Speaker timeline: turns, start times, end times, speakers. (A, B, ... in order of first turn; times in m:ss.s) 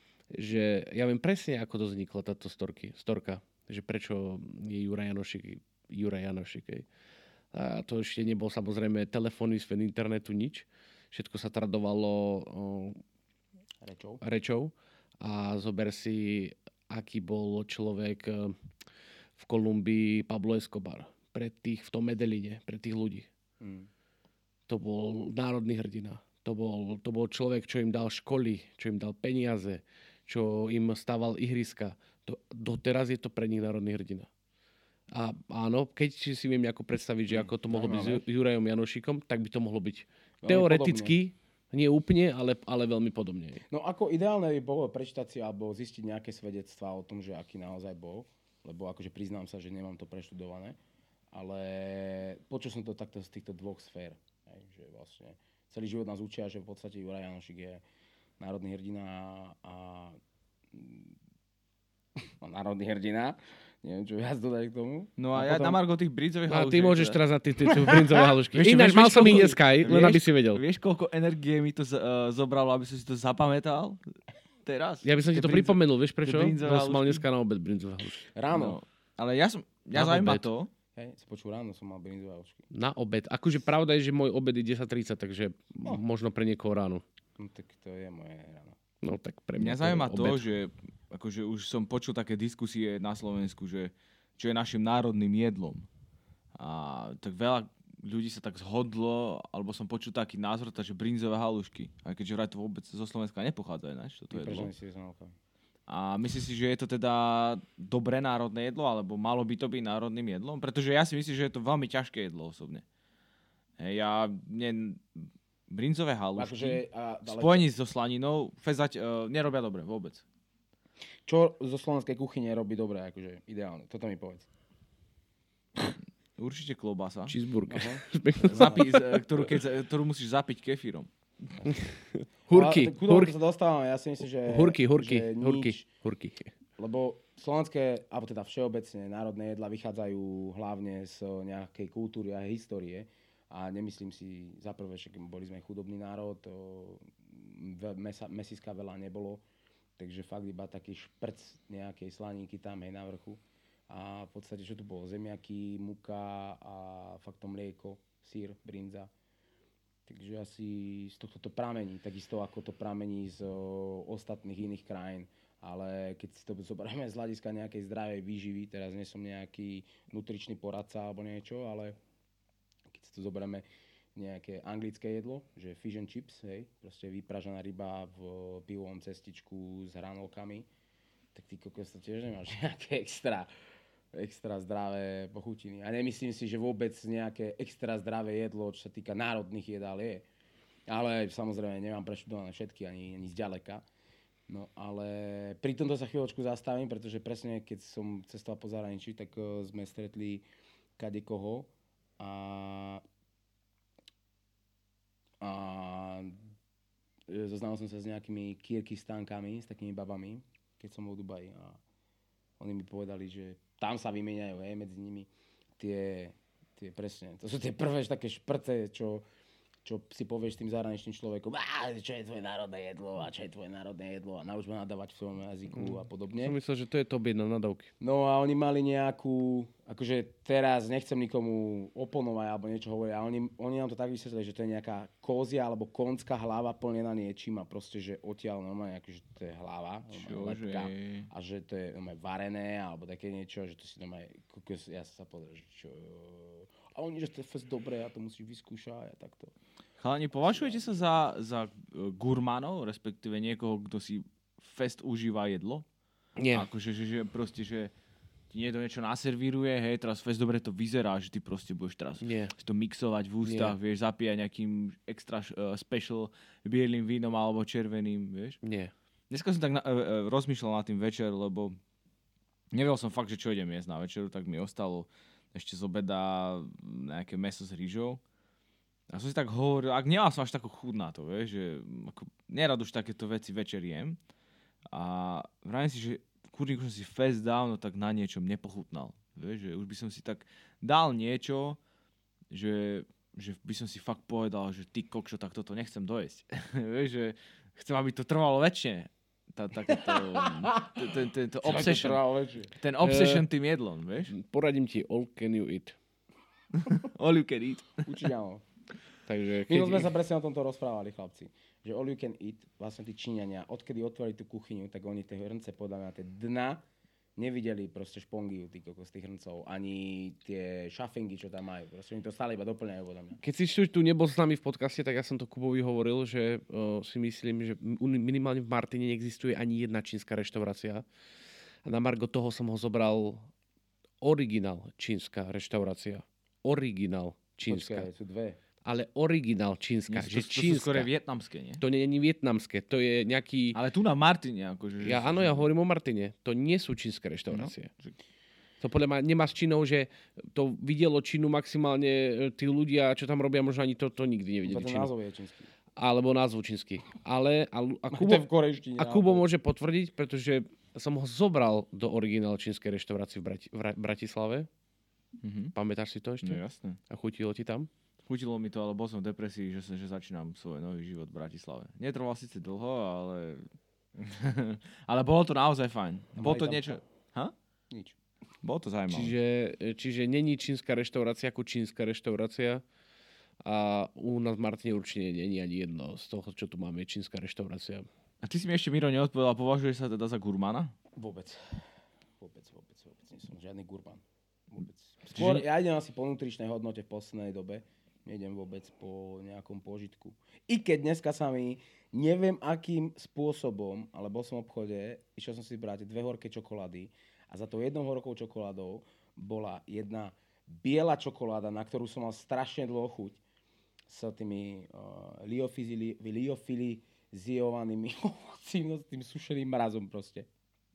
0:00.3-0:06.9 A
0:07.5-0:13.0 A
0:13.8-0:14.2 B
0:14.2-0:18.6 A
0:19.4-0:23.3 A
0:23.6-0:23.9 B
0:24.7-0:34.3 A
0:35.1-0:43.6 A
0:37.3-0:38.2 B
0:40.4-0:41.2 B
0:43.7-0:50.8 B
0:51.3-0:57.8 B
0:58.4-1:00.2 B
1:00.7-1:01.2 B
1:02.4-1:05.8 B
1:05.2-1:07.2 C
1:06.5-1:10.6 A
1:07.8-1:08.1 B
1:08.5-1:14.0 C
1:09.1-1:09.5 B
1:14.6-1:17.2 C
1:15.0-1:18.3 A
1:18.4-1:18.8 B
1:18.5-1:20.7 C
1:19.9-1:20.5 A
1:21.0-1:22.6 B
1:22.7-1:27.0 A
1:27.4-1:28.8 B
1:29.0-1:30.5 A
1:29.6-1:35.9 C
1:36.6-1:44.7 C
1:44.3-1:45.4 B
1:45.9-1:52.8 C
1:53.8-2:00.2 C
1:56.4-1:57.7 B
2:01.3-2:04.5 B
2:06.4-2:07.4 C
2:07.3-2:09.2 A
2:07.7-2:08.8 B
2:08.4-2:11.1 C
2:11.6-2:13.3 A
2:12.5-2:15.9 B
2:14.5-2:16.5 A
2:16.8-2:29.4 B
2:30.0-2:39.1 B
2:40.1-2:52.0 B
2:52.9-3:00.7 B
3:01.4-3:03.5 B
3:04.1-3:10.3 B
3:10.9-3:13.8 B
3:14.5-3:20.4 B
3:21.0-3:23.0 B
3:25.4-3:26.4 B
3:27.3-3:31.8 B
3:32.6-3:39.2 B
3:39.8-3:46.6 B
3:45.7-3:47.9 A
3:48.0-4:09.5 B
4:00.1-4:01.3 C
4:10.0-4:15.8 C
4:10.4-4:11.1 B
4:16.4-4:16.7 A
4:16.5-4:17.9 C
4:18.5-4:28.6 C
4:22.2-4:22.6 A
4:23.4-4:23.8 A
4:28.6-4:28.9 A
4:29.3-4:31.8 C
4:32.7-4:38.2 C
4:39.1-4:44.2 C
4:44.9-4:51.8 C
4:52.5-5:02.2 C
4:59.9-5:01.0 B
5:01.6-5:02.7 B
5:02.8-5:04.3 C
5:03.0-5:03.5 A
5:04.3-5:06.0 A
5:06.7-5:08.1 C
5:08.1-5:08.6 B
5:09.3-5:10.1 A
5:09.7-5:16.8 B
5:17.4-5:23.4 B
5:23.4-5:31.1 A
5:31.8-5:33.5 A
5:34.2-5:38.1 A
5:37.6-5:38.6 B
5:38.8-5:41.1 A
5:40.1-5:41.8 C
5:41.8-5:43.8 A
5:43.7-5:45.7 C
5:45.0-5:47.9 A
5:47.5-5:48.2 C
5:48.8-5:55.1 A
5:54.6-5:55.7 B
5:56.0-5:58.5 A
5:58.1-5:59.5 B
5:59.0-6:04.7 A
6:05.4-6:05.8 C
6:05.8-6:07.9 A
6:06.4-6:07.0 C
6:08.3-6:17.5 C
6:16.3-6:17.0 B
6:17.9-6:18.2 B
6:18.6-6:19.3 C
6:19.1-6:22.8 A
6:23.6-6:28.1 A
6:28.4-6:31.0 C
6:31.2-6:31.8 B
6:32.4-6:53.4 B
6:35.3-6:35.6 C
6:54.1-7:00.5 B